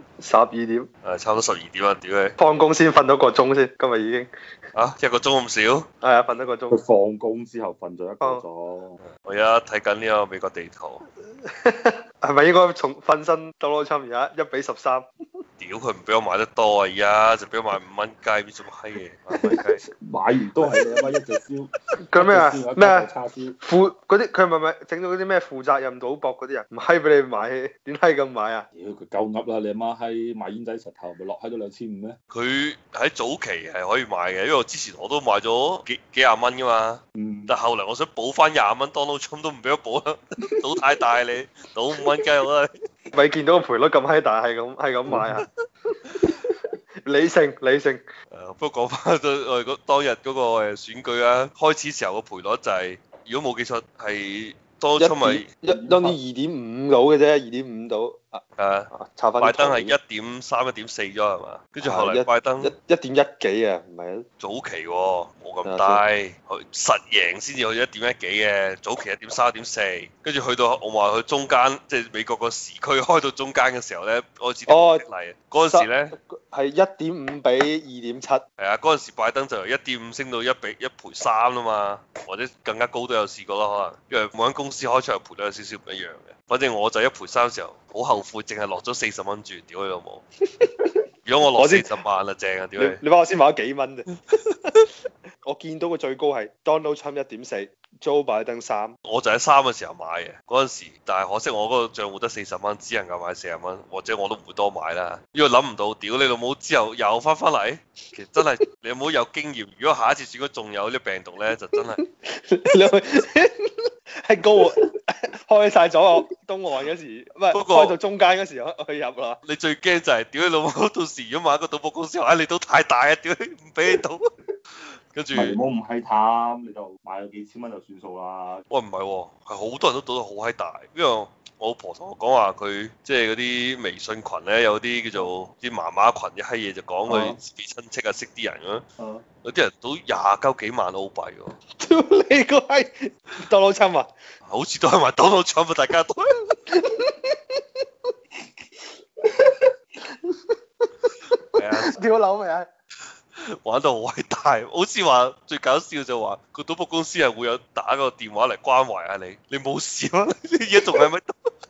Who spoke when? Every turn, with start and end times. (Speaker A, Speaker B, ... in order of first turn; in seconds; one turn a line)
Speaker A: 0.2-0.9
Speaker B: 1.0-2.4
Speaker A: 2.4-4.3
Speaker B: 4.7-5.9
Speaker A: 6.0-6.8
Speaker C: 6.7-9.0
Speaker B: 9.0-11.0
Speaker A: 11.6-15.1
Speaker B: 15.6-19.8
Speaker C: 19.8-23.6
Speaker A: 20.7-21.1
Speaker A: 22.1-23.1
Speaker A: 23.6-28.7
Speaker C: 28.7-32.1
Speaker B: 32.3-42.7
Speaker C: 37.1-37.5
Speaker A: 43.1-45.5
Speaker A: 47.0-48.0
Speaker B: 48.3-55.5
Speaker A: 55.0-60.0
Speaker C: 55.7-56.2
Speaker B: 58.6-62.7
Speaker A: 61.8-64.2
Speaker B: 64.4-76.1
Speaker A: 65.6-66.0
Speaker A: 74.7-75.0
Speaker A: 75.7-78.4
Speaker B: 78.6-90.2
Speaker B: 91.2-93.0
Speaker A: 91.5-91.8
Speaker A: 92.8-94.0
Speaker A: 95.4-98.9
Speaker B: 99.0-112.0
Speaker A: 111.9-113.5
Speaker A: 114.2-114.9
Speaker A: 115.5-119.4
Speaker B: 117.5-118.0
Speaker B: 119.4-124.2
Speaker B: 125.1-125.6
Speaker C: 125.3-128.6
Speaker B: 128.7-138.8
Speaker C: 137.1-137.4
Speaker C: 139.0-139.2
Speaker B: 139.4-141.5
Speaker A: 141.8-144.1
Speaker B: 144.5-146.3
Speaker A: 146.7-147.6
Speaker A: 150.2-150.6
Speaker B: 151.5-152.0
Speaker A: 151.9-152.7
Speaker B: 153.6-161.3